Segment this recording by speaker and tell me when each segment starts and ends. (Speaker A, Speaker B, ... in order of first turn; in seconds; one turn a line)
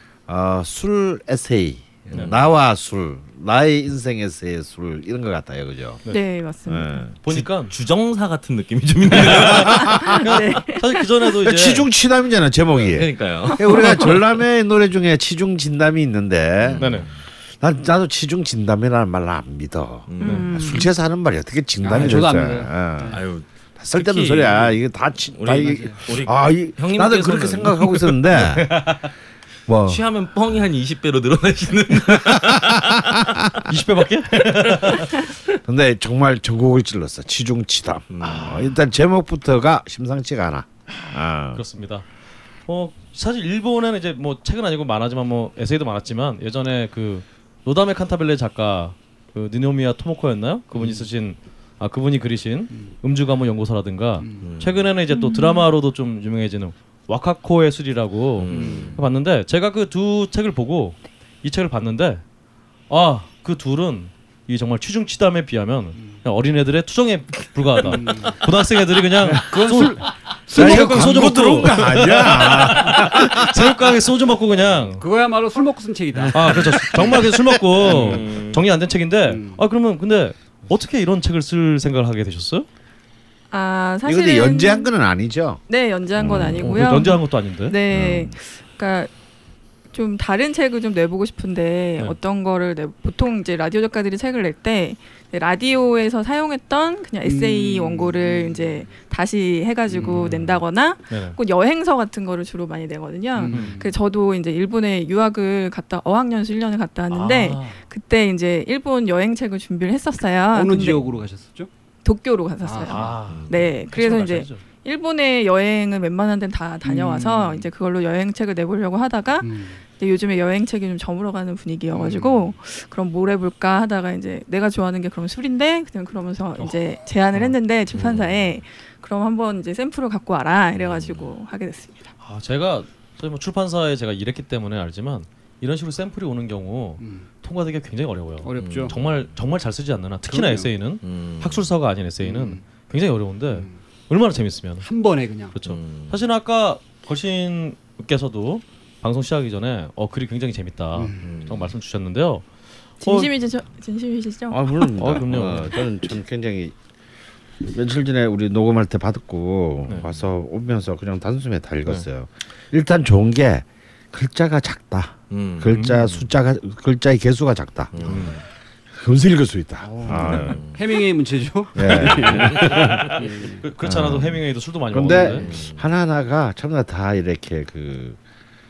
Speaker A: 0.3-6.0
Speaker B: 2.1-2.4
Speaker C: 6.1-7.0
Speaker A: 6.7-7.1
Speaker D: 7.2-7.7
Speaker B: 7.3-10.0
Speaker A: 9.2-10.1
Speaker D: 9.4-11.9
Speaker C: 10.0-11.1
Speaker A: 11.4-17.1
Speaker B: 12.8-14.2
Speaker B: 16.6-17.1
Speaker D: 16.8-17.1
Speaker A: 17.6-23.2
Speaker B: 20.1-20.5
Speaker C: 20.2-20.9
Speaker D: 20.2-20.5
Speaker E: 21.8-23.2
Speaker B: 21.9-22.3
Speaker B: 23.1-24.8
Speaker A: 23.8-28.9
Speaker B: 25.3-28.0
Speaker E: 25.6-26.0
Speaker D: 28.3-29.0
Speaker A: 29.7-30.0
Speaker B: 29.9-33.4
Speaker A: 32.1-32.5
Speaker D: 33.7-35.3
Speaker A: 35.6-41.6
Speaker B: 38.1-38.6
Speaker D: 38.2-38.6
Speaker D: 41.5-42.1
Speaker D: 42.6-62.2
Speaker E: 50.7-51.1
Speaker E: 52.7-53.0
Speaker E: 54.2-54.5
Speaker B: 54.4-54.9
Speaker C: 55.1-55.6
Speaker B: 58.4-59.0
Speaker E: 58.5-59.0
Speaker D: 62.9-75.0
Speaker E: 66.0-66.2
Speaker E: 67.8-68.6
Speaker E: 69.2-71.7
Speaker A: 70.5-73.7
Speaker E: 75.0-77.2
Speaker D: 76.3-82.7
Speaker E: 77.8-78.4
Speaker B: 77.8-78.6
Speaker E: 79.3-79.6
Speaker C: 83.5-84.9
Speaker A: 84.0-85.6
Speaker C: 85.7-89.1
Speaker A: 86.2-86.7
Speaker D: 86.6-87.8
Speaker A: 87.9-88.3
Speaker C: 89.9-111.0
Speaker E: 97.2-98.9
Speaker E: 99.9-100.4
Speaker D: 100.2-100.6
Speaker D: 101.1-101.4
Speaker E: 103.3-103.9
Speaker D: 103.5-103.8
Speaker D: 107.1-107.8
Speaker E: 110.5-111.7
Speaker C: 112.0-132.1
Speaker E: 112.6-113.2
Speaker D: 112.9-114.6
Speaker B: 113.3-113.6
Speaker E: 116.8-117.7
Speaker E: 119.4-119.8
Speaker E: 121.9-122.5
Speaker B: 130.8-131.3
Speaker D: 132.2-144.8
Speaker E: 137.0-137.3
Speaker E: 138.4-138.9
Speaker B: 138.6-139.2
Speaker E: 140.3-140.7
Speaker B: 141.0-141.7
Speaker E: 142.2-142.7
Speaker E: 143.5-143.8
Speaker E: 144.8-145.6
Speaker D: 145.5-152.5
Speaker B: 145.6-146.2
Speaker E: 150.9-151.3
Speaker B: 151.2-151.7
Speaker D: 153.0-153.3
Speaker C: 153.0-154.9
Speaker A: 154.5-156.7
Speaker D: 154.9-155.7
Speaker A: 157.6-170.6
Speaker B: 165.3-165.7
Speaker D: 165.7-166.2
Speaker B: 167.9-168.3
Speaker D: 168.1-168.4
Speaker E: 169.8-173.6
Speaker B: 170.1-170.8
Speaker A: 171.7-173.1
Speaker D: 173.1-175.5
Speaker A: 173.8-178.2
Speaker E: 175.1-175.5
Speaker B: 175.4-175.8